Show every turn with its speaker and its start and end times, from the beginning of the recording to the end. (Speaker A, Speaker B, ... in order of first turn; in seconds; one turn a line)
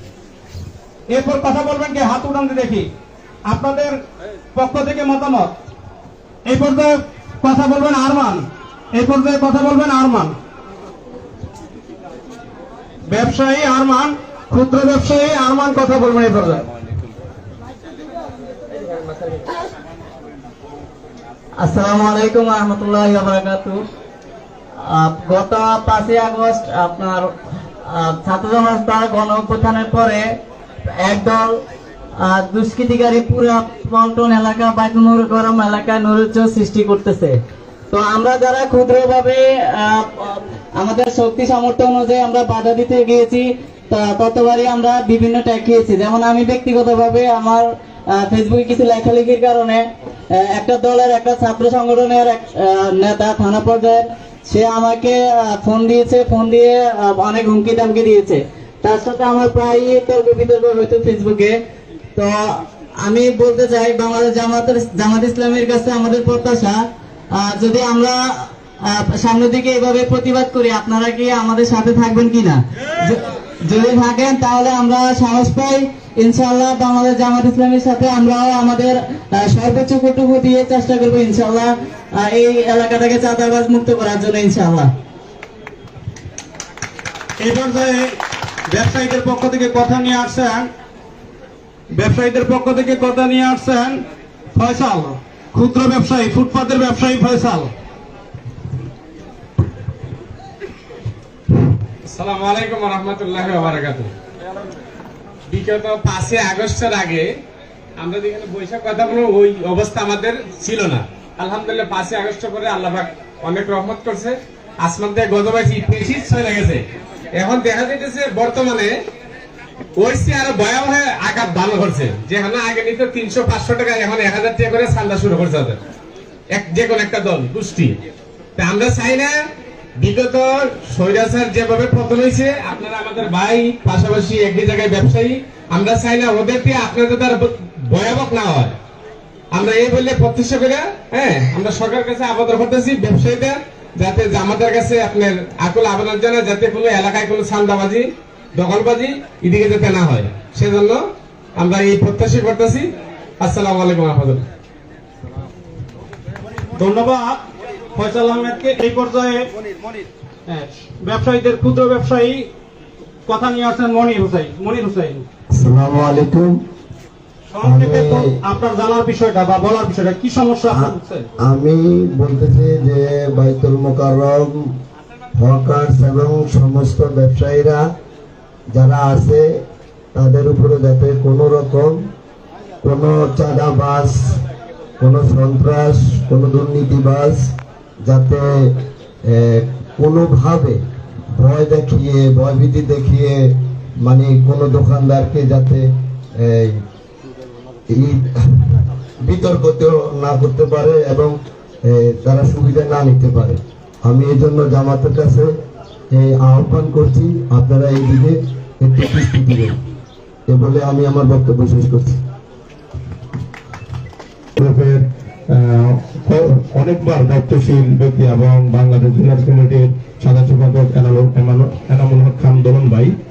Speaker A: 1.1-2.9
Speaker A: 3.5-4.0
Speaker A: 4.5-5.5
Speaker A: 6.5-10.4
Speaker A: 13.1-16.6
Speaker B: 21.6-23.8
Speaker B: 24.8-27.3
Speaker B: 27.9-30.3
Speaker B: 31.0-31.6
Speaker B: 32.2-37.4
Speaker B: 37.9-61.6
Speaker B: 62.2-84.9
Speaker A: 87.4-88.2
Speaker A: 88.7-90.7
Speaker A: 91.9-97.7
Speaker C: 102.0-104.1
Speaker C: 105.5-107.3
Speaker C: 108.0-116.8
Speaker C: 117.4-119.0
Speaker C: 120.0-125.8
Speaker C: 126.5-128.0
Speaker C: 128.6-129.3
Speaker C: 130.0-138.7
Speaker C: 139.5-151.0
Speaker C: 151.6-154.4
Speaker A: 156.8-157.4
Speaker A: 157.9-159.5
Speaker A: 160.5-162.5
Speaker A: 163.3-165.2
Speaker D: 165.5-166.6
Speaker A: 167.5-171.3
Speaker D: 167.6-168.3
Speaker D: 170.7-174.8
Speaker D: 175.4-177.9
Speaker D: 178.7-182.1
Speaker D: 182.8-184.4
Speaker D: 185.0-190.8
Speaker D: 191.3-196.8
Speaker D: 197.9-205.6
Speaker D: 206.1-209.8
Speaker D: 210.5-212.2
Speaker E: 214.6-223.1